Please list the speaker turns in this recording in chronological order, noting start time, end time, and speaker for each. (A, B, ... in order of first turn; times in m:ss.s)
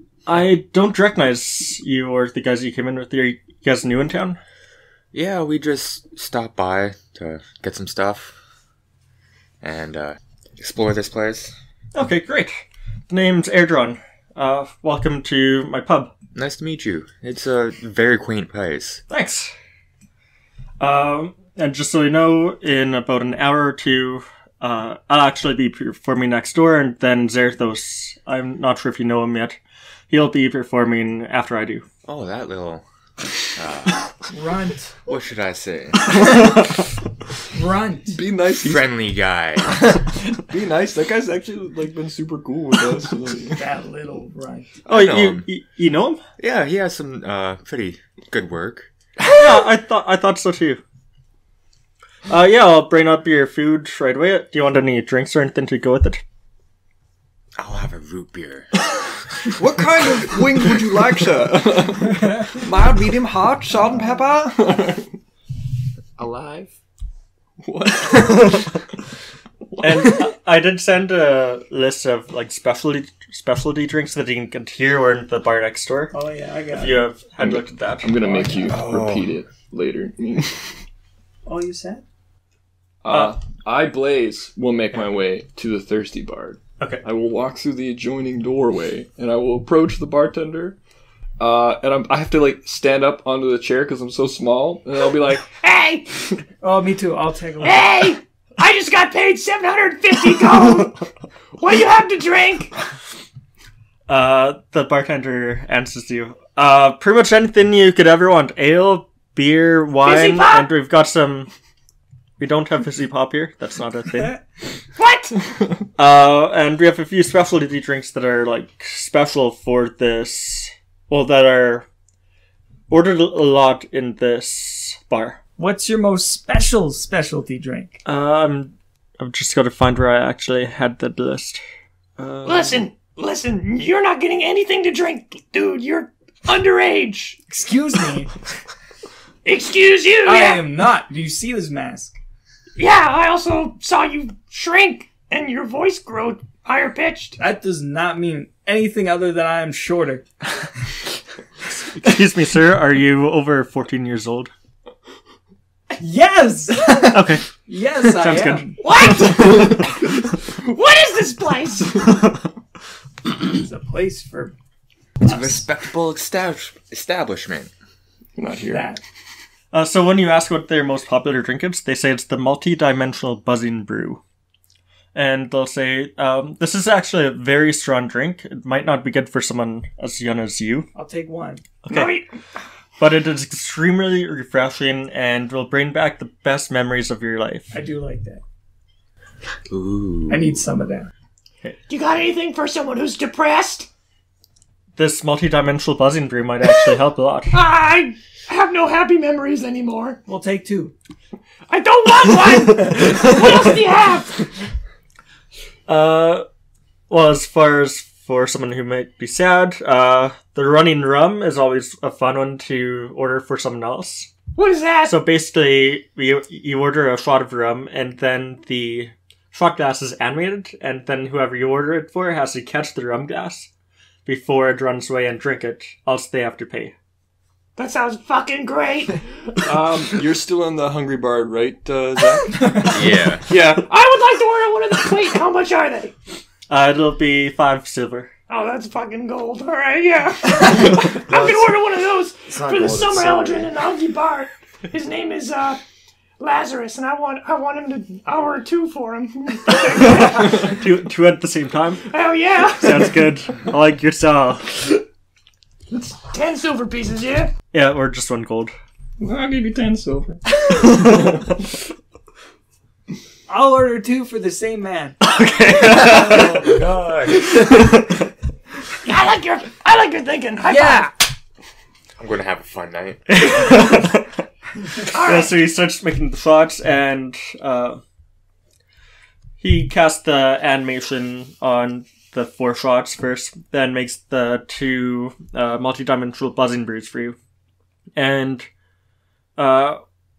0:00.2-0:04.4 A
0:05.1-0:08.3 B
0:09.6-0:11.5 B
0:11.9-0:16.1 A
0:16.3-0:19.0 B
0:19.1-0:19.5 A
0:20.8-0:29.6 A
0:30.1-0:31.8 A
0:32.0-0:32.8 B
0:33.5-0:34.2 B
0:34.3-0:34.9 C
0:35.1-0:36.6 B
0:37.5-0:38.2 C
0:38.1-0:38.9 D
0:38.6-0:40.1 B
0:40.5-0:43.6 D
0:43.6-0:44.8 C
0:44.8-0:45.4 B
0:44.9-0:46.2 A
0:46.4-0:48.9 B
0:49.4-0:50.8 A
0:52.3-0:56.2 A
0:57.6-0:58.7 B
0:59.5-1:05.2 D
1:06.2-1:06.7 E
1:07.6-1:08.8 D
1:09.8-1:10.2 D
1:09.8-1:16.1 A
1:16.1-1:17.1 C
1:16.7-1:18.2 A
1:17.4-1:20.8 D
1:18.2-1:18.7 C
1:18.7-1:19.4 B
1:21.4-1:22.0 C
1:23.0-1:30.8 D
1:31.4-1:35.5 D
1:35.6-1:36.3 F
1:36.6-1:37.9 C
1:37.6-1:41.0 F
1:41.6-1:42.7 F
1:44.1-1:51.5 A
1:50.0-1:50.7 F
1:52.4-1:54.4 A
1:55.0-1:55.4 F
1:56.0-2:01.9 A
2:02.9-2:05.4 A
2:05.6-2:08.0 C
2:08.0-2:11.6 A
2:12.2-2:12.8 C
2:12.4-2:17.4 F
2:17.5-2:18.4 C
2:19.4-2:20.6 F
2:20.2-2:22.2 C
2:22.8-2:27.4 F
2:27.4-2:30.3 C
2:31.8-2:34.5 A
2:36.0-2:38.8 C
2:37.1-2:38.7 A
2:38.8-2:42.1 F
2:39.2-2:39.9 D
2:43.4-2:44.5 C
2:45.2-2:47.7 B
2:45.2-2:45.6 C
2:48.4-2:48.9 D
2:48.7-2:49.0 C
2:49.7-2:54.2 A
2:55.1-3:00.9 A
3:00.9-3:01.6 C
3:01.8-3:02.2 A
3:01.9-3:02.3 F
3:03.0-3:07.7 A
3:07.7-3:08.4 C
3:09.7-3:10.6 B
3:10.3-3:11.1 C
3:11.9-3:13.9 F
3:15.0-3:17.6 A
3:17.5-3:20.2 F
3:20.2-3:20.9 C
3:21.7-3:24.5 F
3:25.9-3:26.4 A
3:27.1-3:34.3 A
3:34.5-3:35.2 F
3:35.0-3:43.7 A
3:44.2-3:46.9 A
3:47.8-3:49.3 F
3:49.6-3:52.9 D
3:52.9-3:53.4 B
3:53.5-3:53.9 D
3:53.7-3:56.1 F
3:56.7-3:58.3 A
3:58.5-4:05.8 F
4:01.3-4:01.7 E
4:02.5-4:03.7 E
4:06.4-4:10.7 F
4:10.0-4:12.1 A
4:12.1-4:13.2 F
4:12.8-4:15.0 A
4:15.9-4:17.5 F
4:17.7-4:18.7 A
4:19.2-4:20.4 D
4:23.5-4:25.2 C
4:25.2-4:26.6 A
4:26.0-4:27.3 C
4:29.0-4:31.1 F
4:30.6-4:31.1 C
4:32.2-4:33.5 B
4:33.3-4:34.4 A
4:35.0-4:38.0 A
4:35.1-4:35.5 F
4:39.6-4:47.4 A
4:48.2-4:48.7 A
4:49.6-4:50.0 A